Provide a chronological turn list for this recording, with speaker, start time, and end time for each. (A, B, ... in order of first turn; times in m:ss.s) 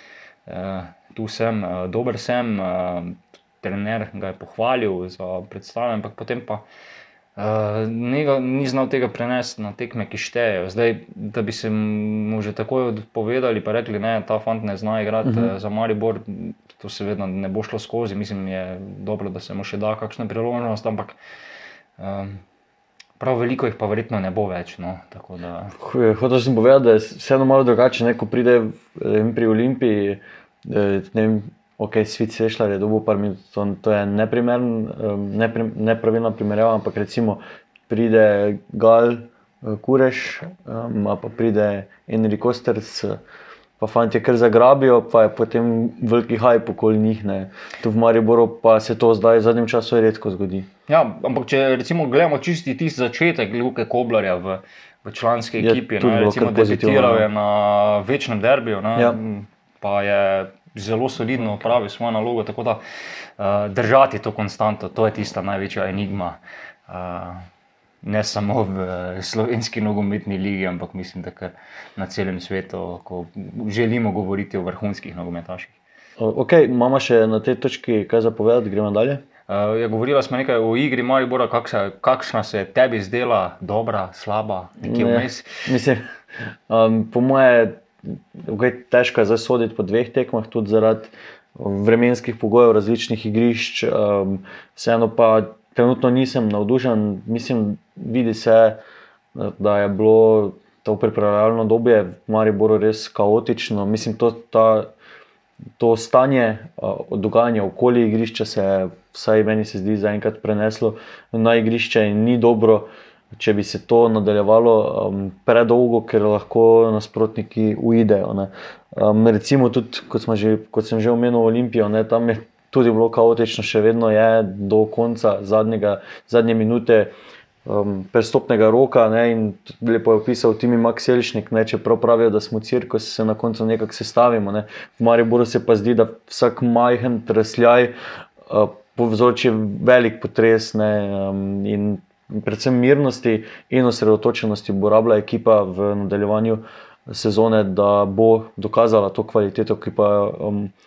0:00.5-0:06.6 A
0:07.4-0:21.2 A
0:22.0-0:22.4 A
0:23.2-0:25.7 A
0:25.8-0:43.2 B
0:43.8-0:50.7 B
0:50.9-1:02.8 A
0:55.6-0:57.2 B
1:03.4-1:06.4 A
1:06.9-1:07.4 A
1:08.0-1:15.7 A
1:16.2-1:19.2 B
1:19.5-1:25.6 A
1:24.8-1:26.0 B
1:26.7-1:38.8 B
1:39.3-1:44.9 B
1:45.8-2:07.1 B
2:07.6-2:17.9 B
2:18.4-2:30.7 B